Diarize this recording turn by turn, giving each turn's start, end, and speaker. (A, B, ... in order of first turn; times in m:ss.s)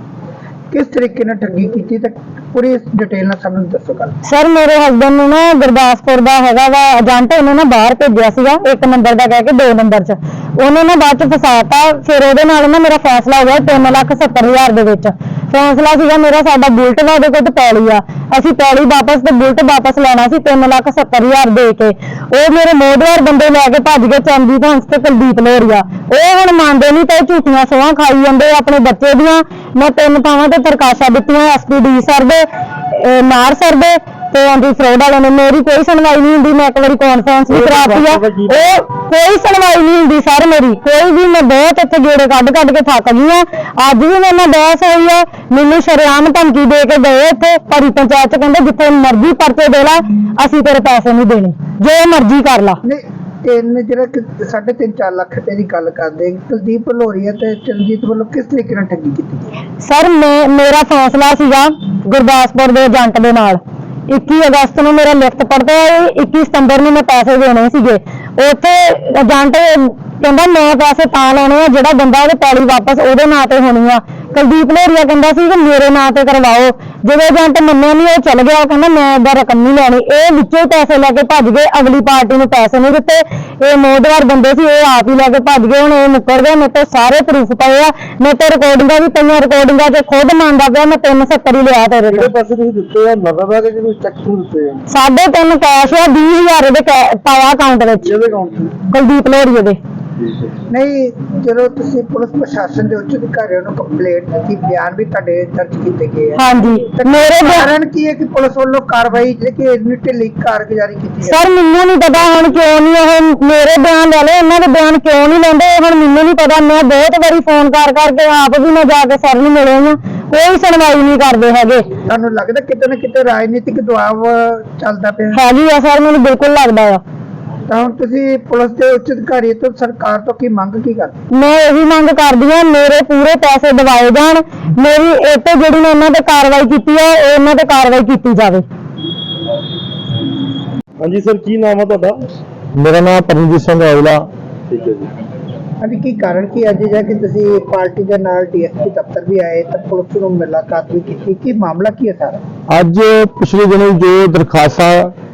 0:00.7-0:04.1 A
0:04.2-0:52.8 B
0:37.5-0:38.6 C
0:52.8-0:59.5 A
0:59.8-1:32.3 B
1:32.1-1:34.8 C
1:34.9-1:38.1 B
1:38.0-1:38.7 C
1:38.8-1:39.8 B
1:40.7-1:51.4 A
1:46.4-1:47.7 B
1:51.2-2:01.9 B
2:02.0-2:05.4 A
2:05.3-2:07.0 B
2:07.7-2:11.1 A
2:11.3-2:18.6 B
2:21.0-2:22.2 C
2:22.8-2:24.2 D
2:24.7-2:25.1 C
2:25.8-2:32.4 A
2:32.7-2:35.1 D